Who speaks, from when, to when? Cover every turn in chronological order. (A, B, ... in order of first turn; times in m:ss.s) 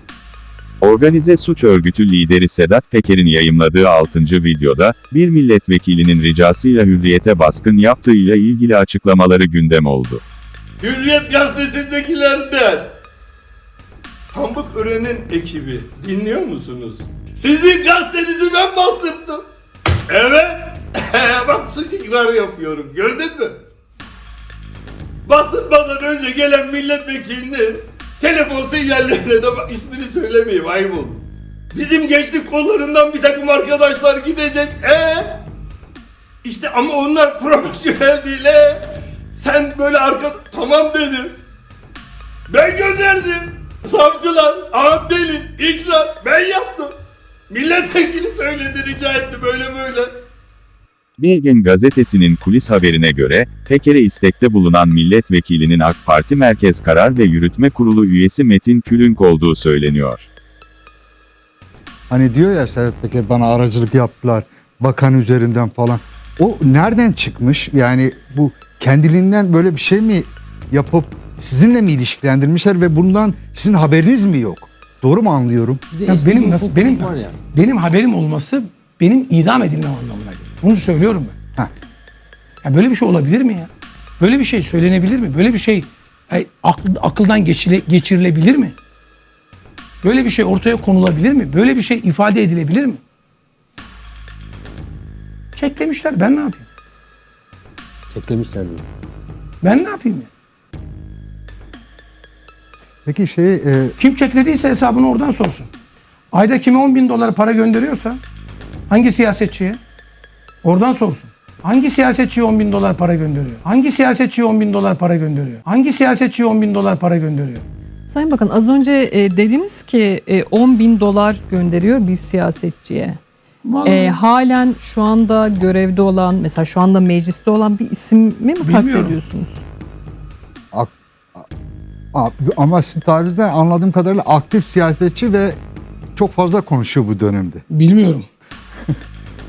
0:00.8-0:10.2 A
0:10.8-0:13.0 B
0:14.3-0:19.4 B
0:20.1-0:23.6 B
0:25.2-0:35.4 B
0:36.4-0:38.8 B
0:39.3-0:41.4 B
0:42.5-0:46.9 B
0:47.5-0:50.1 B
0:51.2-1:00.3 A
1:02.1-1:15.8 C
1:15.9-1:17.4 D
1:16.1-1:21.4 E
1:22.6-1:28.8 E
1:30.0-1:33.0 E
1:35.5-1:36.7 E
1:38.1-1:38.9 D
1:39.6-1:40.3 E
1:43.1-1:44.0 C
1:44.0-1:45.7 E
1:46.3-1:48.2 E
1:48.9-1:49.8 E
1:50.6-1:57.6 E
1:58.1-2:03.2 F
2:03.6-2:04.2 E
2:03.8-2:09.6 F
2:08.6-2:09.2 E
2:10.7-2:11.5 C
2:12.1-2:15.6 C
2:16.2-2:17.6 C
2:17.7-2:18.3 E